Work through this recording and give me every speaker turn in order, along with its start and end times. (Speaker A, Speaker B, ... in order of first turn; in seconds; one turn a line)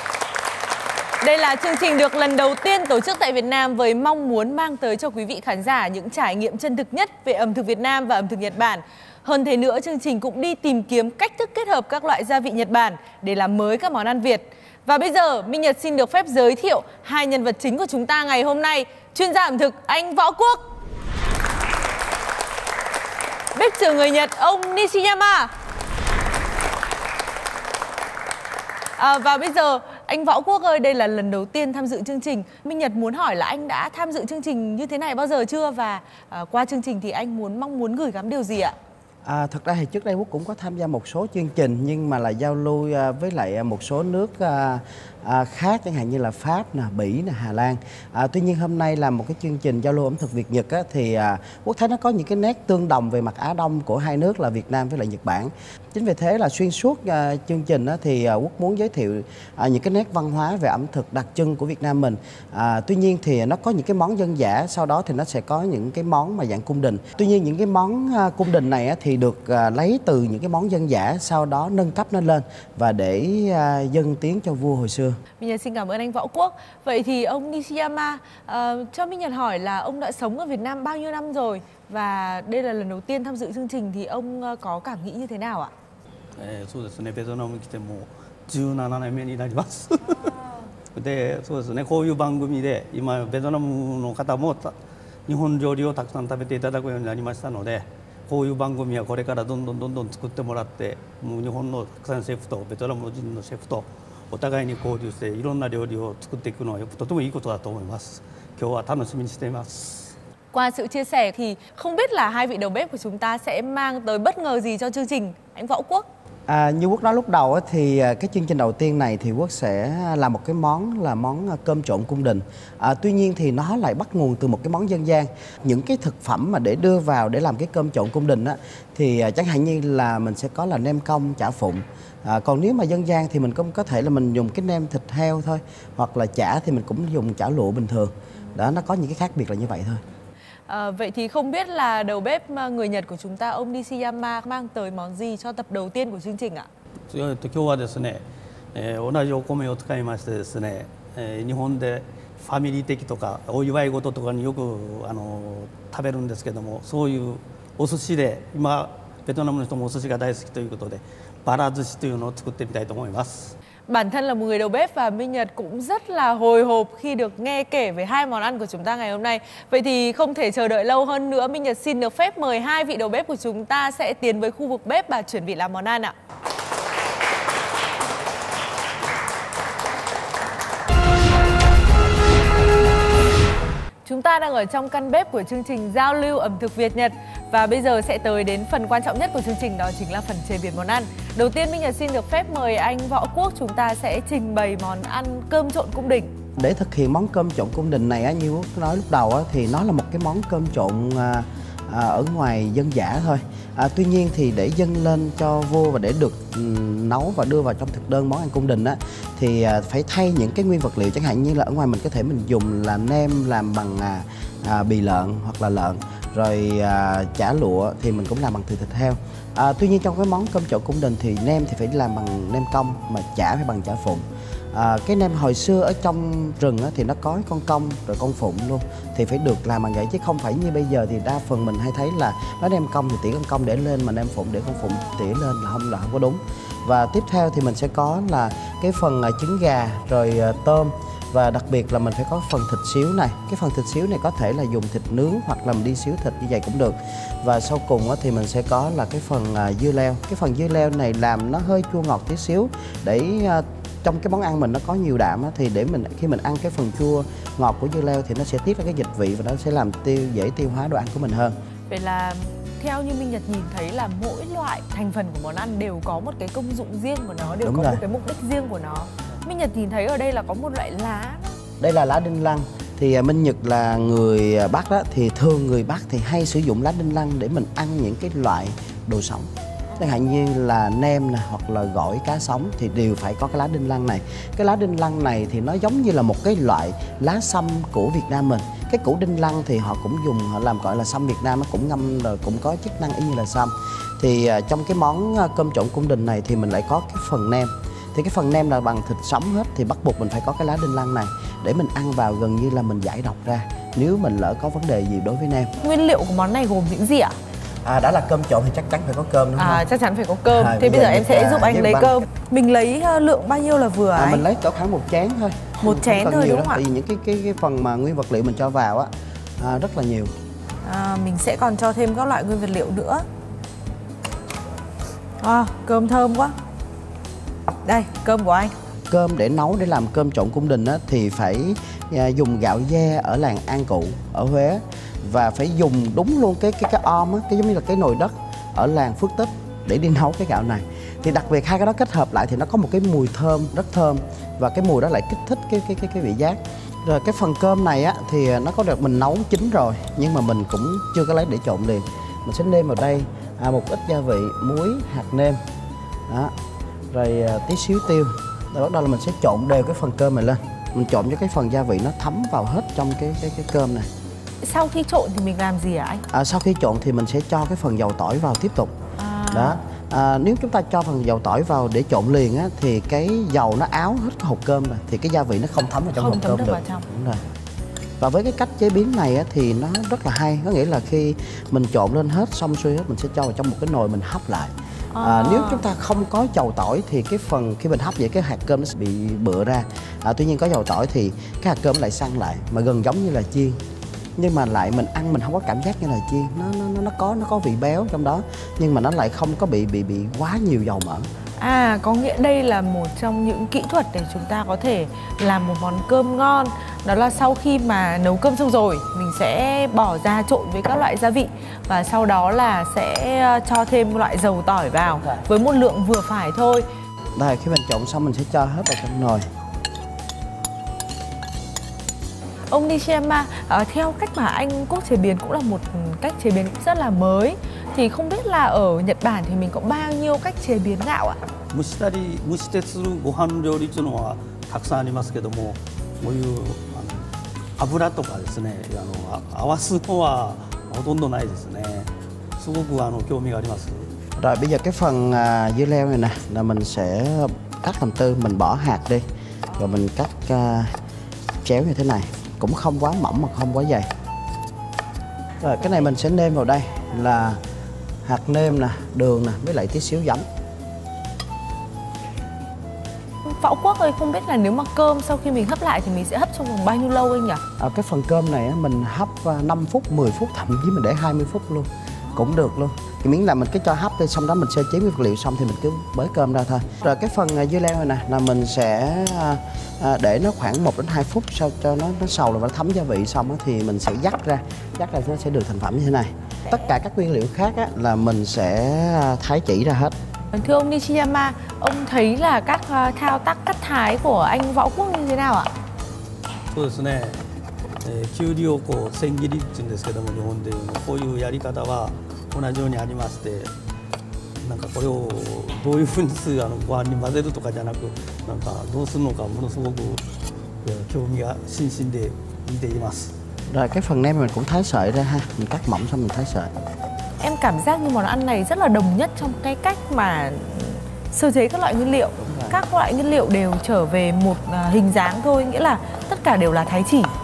Speaker A: 1.2-20.6
Speaker A: 23.6-25.5
Speaker A: 29.0-38.8
Speaker B: 39.2-75.2
Speaker A: 75.4-85.7
Speaker C: 86.4-90.3
Speaker C: 90.9-94.8
Speaker C: 95.3-110.1
Speaker A: 110.5-116.1
Speaker B: 116.5-140.0
Speaker A: 140.7-146.7
Speaker C: 147.1-148.2
Speaker C: 148.7-163.5
Speaker A: 163.9-176.2
Speaker A: 184.1-196.3
Speaker B: 196.6-261.6
Speaker A: 261.9-271.6
Speaker B: 267.6-268.0
Speaker B: 271.8-305.7
Speaker A: 305.8-307.4
Speaker B: 307.8-309.9
Speaker A: 309.6-314.4
Speaker B: 310.5-312.3
Speaker B: 314.1-320.3
Speaker A: 315.8-316.8
Speaker A: 320.8-323.2
Speaker A: 325.4-326.6
Speaker A: 327.9-328.7
Speaker B: 329.1-355.6
Speaker B: 356.3-356.5
Speaker B: 357.1-364.1
Speaker A: 364.6-366.2
Speaker B: 366.3-369.0
Speaker A: 369.2-369.8
Speaker B: 369.5-377.4
Speaker A: 376.1-377.1
Speaker B: 378.2-393.8
Speaker A: 385.1-385.9
Speaker B: 394.4-401.3
Speaker A: 401.6-416.9
Speaker B: 417.4-419.5
Speaker A: 422.7-431.4
Speaker C: 431.7-437.3
Speaker C: 437.8-444.1
Speaker B: 444.4-449.2
Speaker B: 449.8-450.9
Speaker B: 451.6-454.1
Speaker B: 455.6-457.6
Speaker B: 458.2-460.4
Speaker A: 463.5-467.6
Speaker B: 467.8-490.2
Speaker A: 490.5-495.7
Speaker C: 496.7-497.4
Speaker C: 498.0-503.7
Speaker C: 504.6-510.2
Speaker C: 510.8-513.3
Speaker B: 513.7-516.7
Speaker A: 517.4-527.3
Speaker B: 522.4-522.8